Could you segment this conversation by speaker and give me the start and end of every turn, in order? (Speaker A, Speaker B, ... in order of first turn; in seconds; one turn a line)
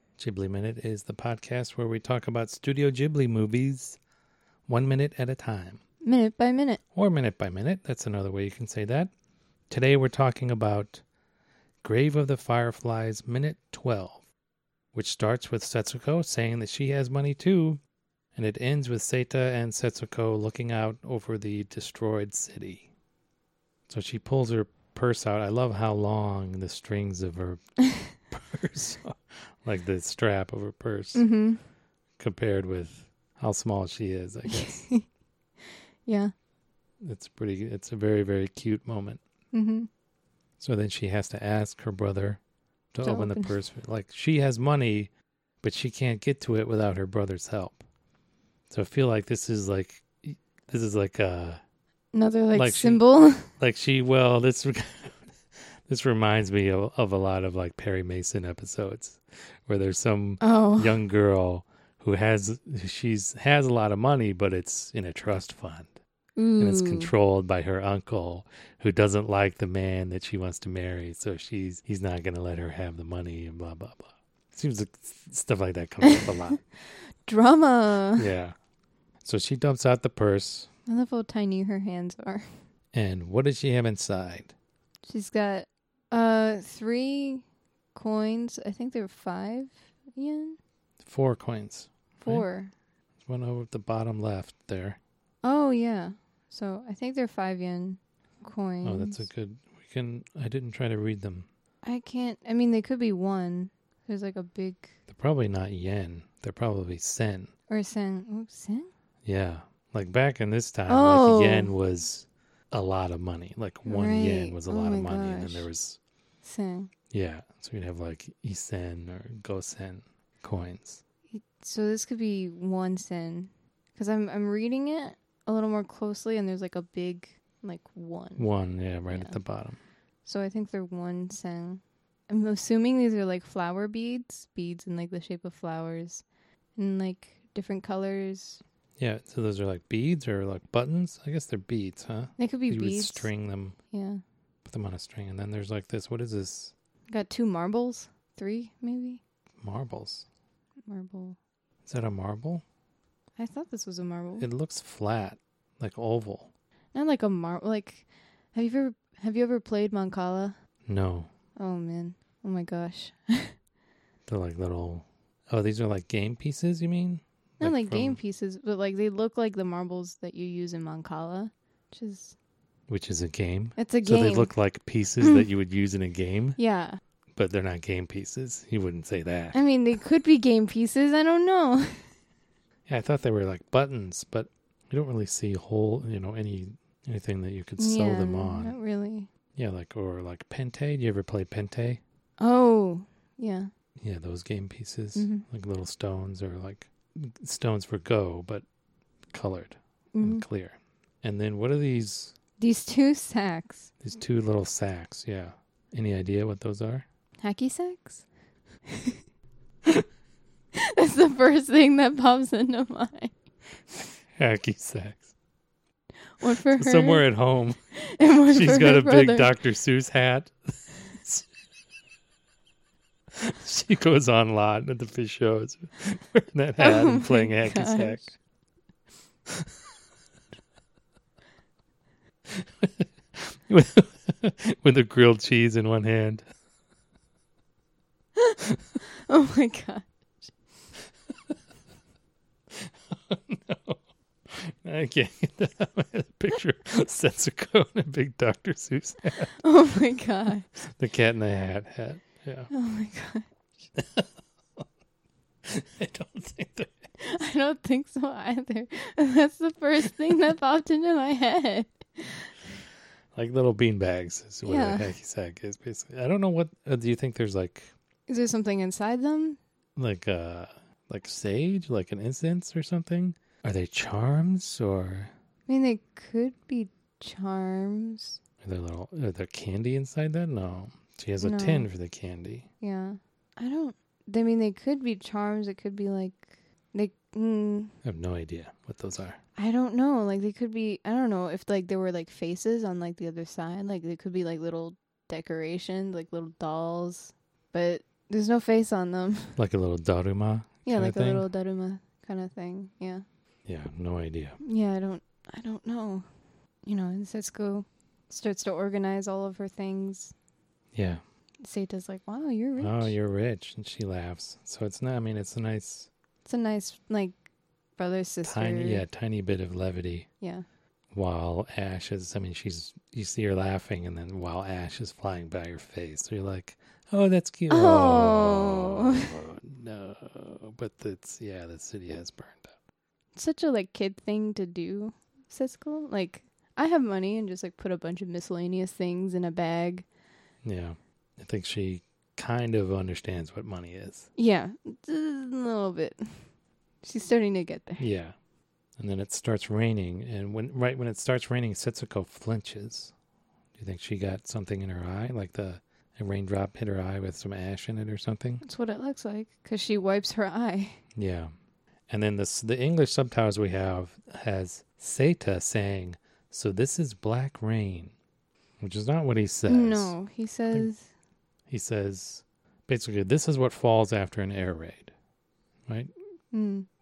Speaker A: 0.2-4.0
Speaker A: 4.7-5.8
Speaker B: 6.0-6.8
Speaker A: 6.9-9.1
Speaker A: 9.7-11.0
Speaker A: 11.8-14.3
Speaker A: 14.9-17.8
Speaker A: 18.4-22.9
Speaker A: 23.9-27.6
Speaker A: 28.1-31.2
Speaker B: 31.1-31.6
Speaker A: 32.2-34.8
Speaker B: 34.5-35.0
Speaker B: 35.6-36.3
Speaker A: 37.0-39.2
Speaker B: 39.5-39.9
Speaker A: 40.6-42.4
Speaker A: 42.9-45.1
Speaker B: 43.0-43.5
Speaker A: 45.6-47.8
Speaker A: 48.7-51.6
Speaker B: 52.1-53.5
Speaker A: 52.5-53.0
Speaker A: 53.6-55.4
Speaker A: 55.9-66.0
Speaker B: 60.4-61.0
Speaker B: 66.4-67.1
Speaker A: 66.6-76.6
Speaker B: 76.0-78.3
Speaker A: 78.2-78.5
Speaker A: 79.2-80.7
Speaker B: 80.9-82.5
Speaker A: 82.9-84.5
Speaker B: 85.1-90.6
Speaker A: 91.0-92.5
Speaker B: 92.2-92.7
Speaker A: 93.2-95.0
Speaker B: 95.4-99.2
Speaker A: 98.8-101.5
Speaker B: 101.8-104.9
Speaker A: 105.1-107.5
Speaker B: 107.7-108.9
Speaker A: 109.2-116.0
Speaker B: 110.9-111.7
Speaker B: 113.8-115.7
Speaker B: 116.4-116.9
Speaker A: 117.1-121.0
Speaker B: 121.3-128.5
Speaker A: 128.4-129.8
Speaker B: 129.1-129.4
Speaker B: 130.2-136.2
Speaker B: 136.8-138.6
Speaker A: 139.0-143.8
Speaker B: 142.4-143.3
Speaker B: 143.9-144.2
Speaker A: 144.7-146.7
Speaker B: 147.1-149.2
Speaker A: 149.6-150.3
Speaker B: 150.9-151.4
Speaker A: 151.8-152.6
Speaker B: 153.4-154.5
Speaker A: 154.4-156.5
Speaker B: 156.9-160.6
Speaker A: 160.9-161.3
Speaker B: 161.6-163.6
Speaker A: 164.3-168.2
Speaker B: 167.6-172.3
Speaker A: 172.9-176.6
Speaker B: 173.8-174.6
Speaker B: 176.6-177.0
Speaker A: 177.4-179.6
Speaker B: 179.5-182.1
Speaker A: 182.9-188.8
Speaker B: 187.8-189.3
Speaker A: 189.6-192.0
Speaker B: 192.4-193.7
Speaker A: 194.0-198.6
Speaker B: 195.2-195.4
Speaker A: 199.3-202.3
Speaker B: 200.1-200.4
Speaker B: 202.6-203.9
Speaker A: 204.0-207.1
Speaker B: 207.4-208.3
Speaker B: 208.9-209.2
Speaker B: 210.8-213.3
Speaker A: 214.4-215.3
Speaker B: 216.4-217.2
Speaker A: 216.6-217.8
Speaker B: 217.9-219.5
Speaker A: 218.5-221.5
Speaker A: 223.4-228.3
Speaker B: 226.8-228.3
Speaker A: 232.5-236.4
Speaker B: 239.2-240.1
Speaker A: 242.8-249.6
Speaker B: 249.6-250.8
Speaker A: 250.8-252.7
Speaker B: 252.7-253.5
Speaker A: 254.0-254.3
Speaker A: 255.7-257.1
Speaker B: 257.2-262.5
Speaker A: 263.4-267.9
Speaker B: 264.6-265.1
Speaker B: 268.3-269.6
Speaker A: 270.0-275.3
Speaker B: 275.7-278.4
Speaker A: 278.6-282.7
Speaker B: 281.4-281.9
Speaker B: 282.8-287.9
Speaker A: 288.0-289.4
Speaker B: 289.6-299.6
Speaker A: 299.6-301.5
Speaker B: 300.9-303.2
Speaker A: 303.7-304.6
Speaker B: 304.6-306.3
Speaker B: 306.9-310.3
Speaker A: 310.9-311.2
Speaker B: 311.6-313.1
Speaker A: 312.8-316.1
Speaker B: 316.4-317.4
Speaker B: 318.0-319.1
Speaker A: 318.4-320.3
Speaker A: 321.1-332.8
Speaker B: 327.7-329.3
Speaker B: 333.4-340.1
Speaker A: 340.6-344.3
Speaker B: 344.4-346.5
Speaker B: 347.0-348.0
Speaker A: 348.0-348.4
Speaker A: 349.0-353.1
Speaker A: 353.8-358.6
Speaker B: 358.6-361.0
Speaker A: 361.2-361.5
Speaker A: 362.1-368.1
Speaker A: 368.8-370.1
Speaker B: 369.7-371.1
Speaker A: 371.7-375.1
Speaker B: 376.5-376.9